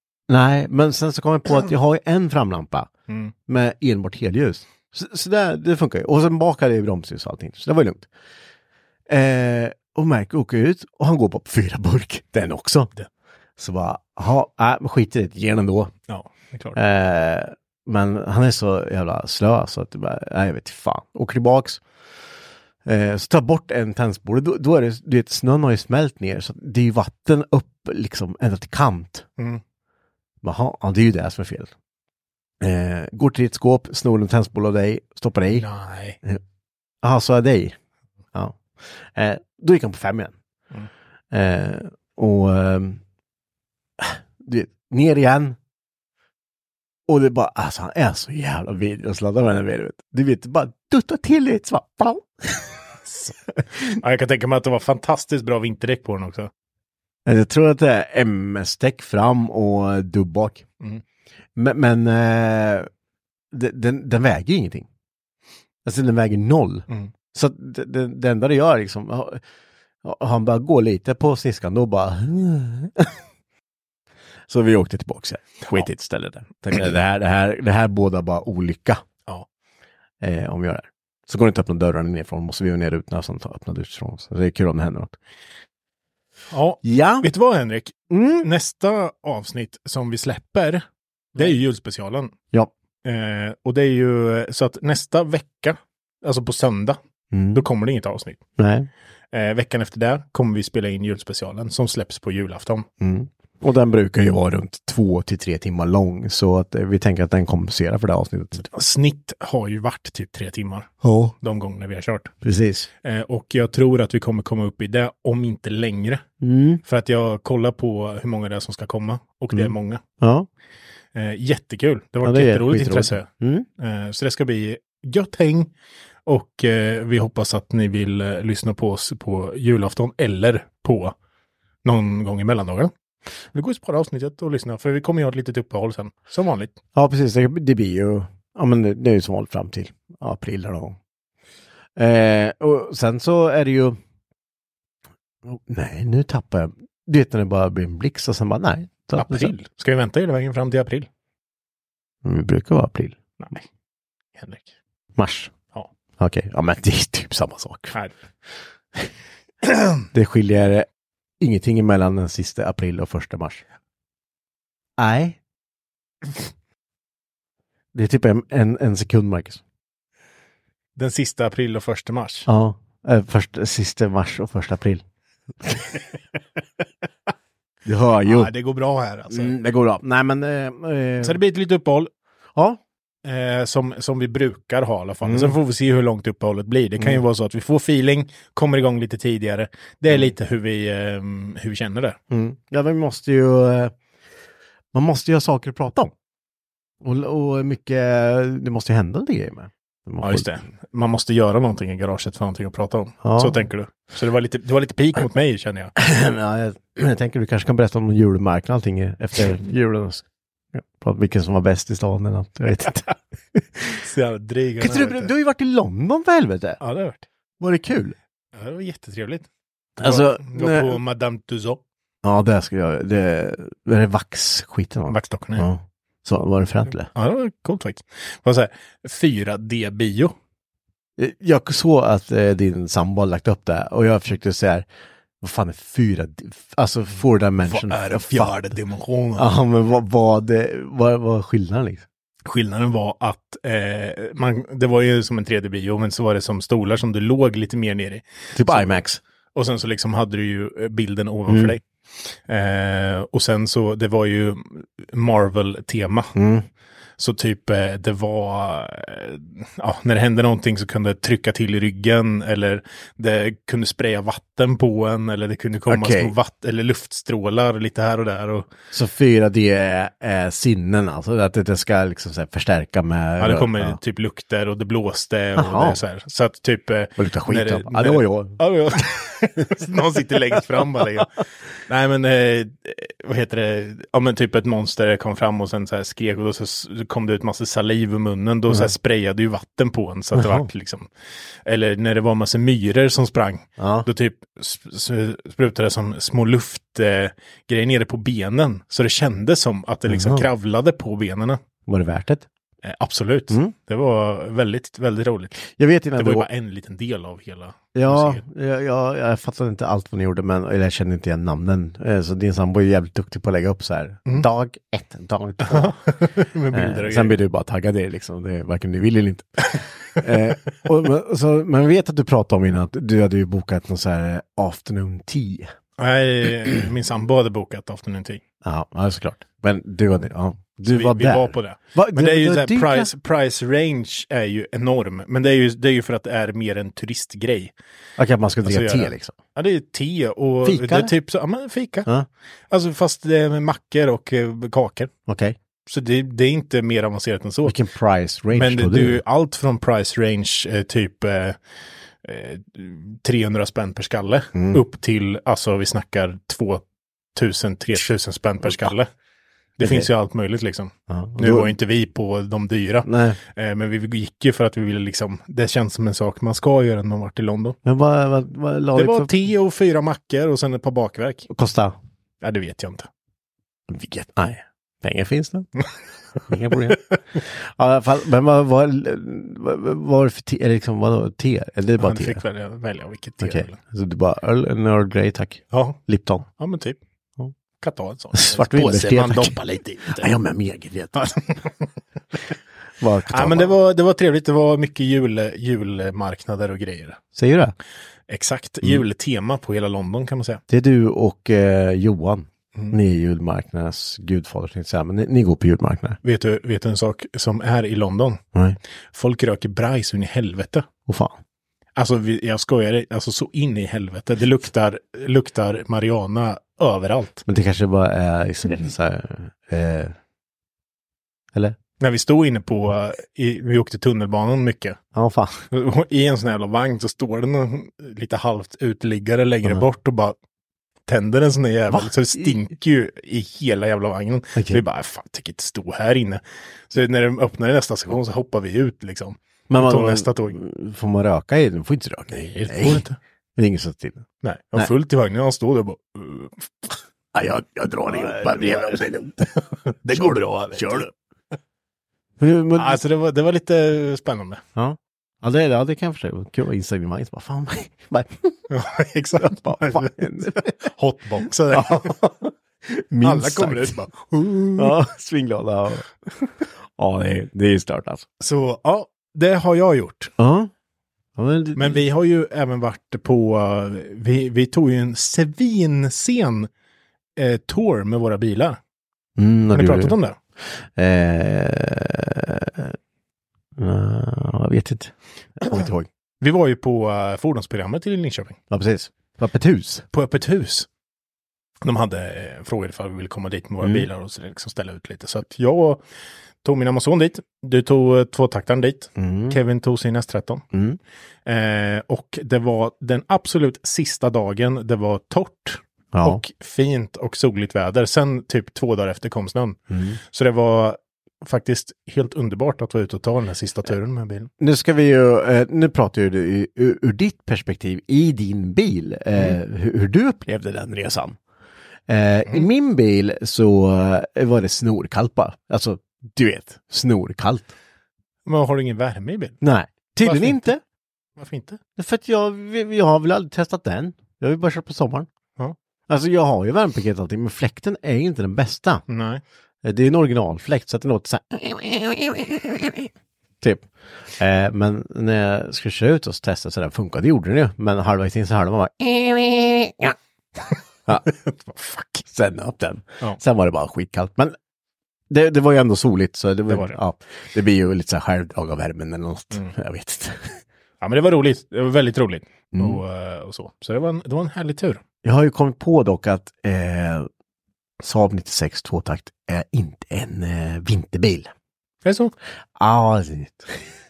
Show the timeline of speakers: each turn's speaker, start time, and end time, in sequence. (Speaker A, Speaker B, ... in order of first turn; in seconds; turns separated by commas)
Speaker A: 0.3-2.9, Speaker B: 3.1-3.3, Speaker A: 3.5-8.1, Speaker A: 9.1-12.9, Speaker A: 13.6-15.9, Speaker B: 16.1-16.8, Speaker A: 16.7-21.8, Speaker A: 22.9-29.3, Speaker A: 30.4-31.7, Speaker A: 32.6-35.7, Speaker B: 35.5-36.2, Speaker A: 37.0-37.8, Speaker A: 38.3-40.4, Speaker A: 41.3-43.0, Speaker A: 44.0-45.6, Speaker A: 47.1-52.8, Speaker B: 53.2-56.5, Speaker A: 57.3-60.7, Speaker A: 61.6-62.9, Speaker A: 63.5-64.9, Speaker A: 65.8-69.4, Speaker A: 70.0-73.2, Speaker A: 74.5-79.0, Speaker A: 80.2-85.2, Speaker B: 86.5-90.8, Speaker A: 86.8-87.3, Speaker A: 88.1-88.5, Speaker B: 91.3-92.3, Speaker B: 93.0-97.0, Speaker A: 97.3-97.7, Speaker B: 97.5-98.4, Speaker A: 98.6-98.9, Speaker B: 99.3-102.9, Speaker A: 103.0-108.7, Speaker B: 108.7-110.9, Speaker A: 111.0-111.3, Speaker B: 111.4-112.3, Speaker A: 112.4-112.9, Speaker B: 113.0-116.2, Speaker A: 116.4-116.8, Speaker B: 116.9-120.0, Speaker A: 119.5-120.5, Speaker B: 121.2-123.3, Speaker A: 122.2-123.7, Speaker B: 123.8-125.7, Speaker B: 126.3-131.2, Speaker B: 131.8-132.9, Speaker B: 133.5-136.7, Speaker A: 136.9-141.0, Speaker A: 142.0-144.0, Speaker A: 145.4-149.5, Speaker B: 149.2-151.1, Speaker A: 152.2-153.2, Speaker B: 153.4-153.7, Speaker B: 154.4-154.7, Speaker A: 155.2-155.5, Speaker A: 156.2-158.0, Speaker A: 160.1-160.9, Speaker A: 161.4-163.6, Speaker A: 165.0-165.4, Speaker A: 167.9-169.6, Speaker B: 171.0-172.5, Speaker A: 172.5-175.0, Speaker A: 175.6-175.9, Speaker A: 177.8-178.5, Speaker B: 178.3-179.5, Speaker A: 179.3-181.4, Speaker B: 181.2-182.1, Speaker A: 182.6-182.8, Speaker B: 183.2-192.2, Speaker A: 185.2-185.6, Speaker A: 192.3-193.9, Speaker A: 194.9-196.1, Speaker A: 197.0-200.5, Speaker B: 200.2-205.9, Speaker A: 203.2-203.6, Speaker A: 206.0-214.0, Speaker B: 214.0-215.3, Speaker A: 214.8-216.8, Speaker B: 216.8-217.3, Speaker A: 217.6-218.2, Speaker B: 218.6-219.5, Speaker B: 220.0-221.8, Speaker A: 220.0-221.0, Speaker A: 222.2-227.1, Speaker B: 225.1-225.7, Speaker B: 227.2-230.3, Speaker A: 231.2-234.9, Speaker A: 235.4-238.5, Speaker B: 237.7-239.5, Speaker A: 239.4-242.1, Speaker B: 242.5-249.0, Speaker A: 248.5-249.2, Speaker B: 249.6-256.3, Speaker A: 251.5-251.8, Speaker A: 256.4-256.7, Speaker B: 257.2-268.7, Speaker A: 265.9-266.3, Speaker A: 268.9-274.0, Speaker B: 273.4-281.3, Speaker A: 275.6-276.0, Speaker A: 277.2-278.6, Speaker B: 281.9-291.1, Speaker A: 290.4-290.7, Speaker B: 291.7-301.6, Speaker A: 293.8-294.1, Speaker A: 300.1-300.5, Speaker A: 301.9-302.5, Speaker B: 302.8-305.6, Speaker A: 305.7-306.5, Speaker B: 306.2-308.4, Speaker A: 307.9-315.9, Speaker B: 315.6-317.4, Speaker A: 316.7-325.7, Speaker B: 326.0-328.4, Speaker A: 328.6-333.1, Speaker B: 330.9-337.7, Speaker A: 338.2-339.4, Speaker B: 338.6-342.1, Speaker A: 340.6-341.1, Speaker B: 342.7-345.1, Speaker A: 345.3-345.6, Speaker B: 345.9-347.8, Speaker A: 347.6-349.2, Speaker B: 348.5-351.6, Speaker B: 352.2-356.8, Speaker A: 354.6-354.8, Speaker B: 357.4-359.1, Speaker A: 359.8-360.1, Speaker B: 359.8-367.8, Speaker A: 361.1-361.7, Speaker A: 363.1-363.4, Speaker A: 367.9-369.3, Speaker B: 368.9-371.5, Speaker A: 371.5-372.0, Speaker B: 372.4-373.1, Speaker A: 373.9-375.7, Speaker A: 376.5-382.4, Speaker B: 376.9-377.2, Speaker B: 382.0-383.8, Speaker A: 383.4-386.5, Speaker B: 385.7-386.0, Speaker B: 386.5-387.0, Speaker B: 387.8-390.3, Speaker A: 388.3-391.4, Speaker A: 393.0-393.8, Speaker B: 393.3-397.2, Speaker A: 397.4-397.8, Speaker B: 398.3-400.6, Speaker A: 400.7-406.2, Speaker B: 406.2-408.4, Speaker B: 409.1-410.9, Speaker A: 411.1-411.4, Speaker B: 412.0-417.4, Speaker A: 417.5-420.2, Speaker B: 422.0-425.0, Speaker A: 425.1-425.6, Speaker B: 425.7-430.4, Speaker B: 431.1-440.6, Speaker A: 431.9-432.5, Speaker A: 434.6-434.8, Speaker A: 439.7-443.1, Speaker B: 442.3-443.2, Speaker A: 443.6-444.2, Speaker B: 444.4-447.0, Speaker A: 447.3-449.5, Speaker B: 448.1-449.0, Speaker B: 449.6-451.1, Speaker A: 450.1-451.1, Speaker A: 452.4-453.0, Speaker B: 452.8-454.6, Speaker A: 454.8-458.7, Speaker B: 458.7-462.1, Speaker A: 459.4-460.7, Speaker A: 461.7-464.0, Speaker B: 463.2-465.0, Speaker A: 464.8-468.3, Speaker B: 468.4-470.3, Speaker A: 470.4-470.7, Speaker A: 471.4-472.0, Speaker B: 471.8-476.7, Speaker B: 477.4-478.8, Speaker A: 479.4-480.2, Speaker B: 479.7-480.4, Speaker A: 480.9-483.0, Speaker A: 483.8-486.1, Speaker B: 486.4-488.6, Speaker A: 488.7-490.1, Speaker B: 490.1-490.9, Speaker B: 491.8-496.0, Speaker A: 493.8-494.1, Speaker B: 496.6-500.6, Speaker A: 499.2-499.6, Speaker A: 500.7-501.0, Speaker B: 501.5-509.8, Speaker A: 506.1-506.4, Speaker A: 509.9-510.2, Speaker B: 510.3-514.5, Speaker A: 514.6-521.4, Speaker A: 522.1-527.7, Speaker B: 528.5-529.6, Speaker A: 529.6-530.8, Speaker B: 530.2-530.6, Speaker B: 531.4-531.8, Speaker A: 532.0-535.3, Speaker A: 536.1-539.0, Speaker B: 539.1-539.4, Speaker A: 539.8-543.1, Speaker A: 543.6-550.2, Speaker B: 551.3-552.2, Speaker A: 552.2-554.6, Speaker A: 555.3-560.6, Speaker B: 556.7-557.0, Speaker B: 561.0-565.0, Speaker A: 562.7-563.0, Speaker A: 565.2-567.3, Speaker A: 568.0-571.5, Speaker B: 572.0-572.3, Speaker A: 572.8-573.8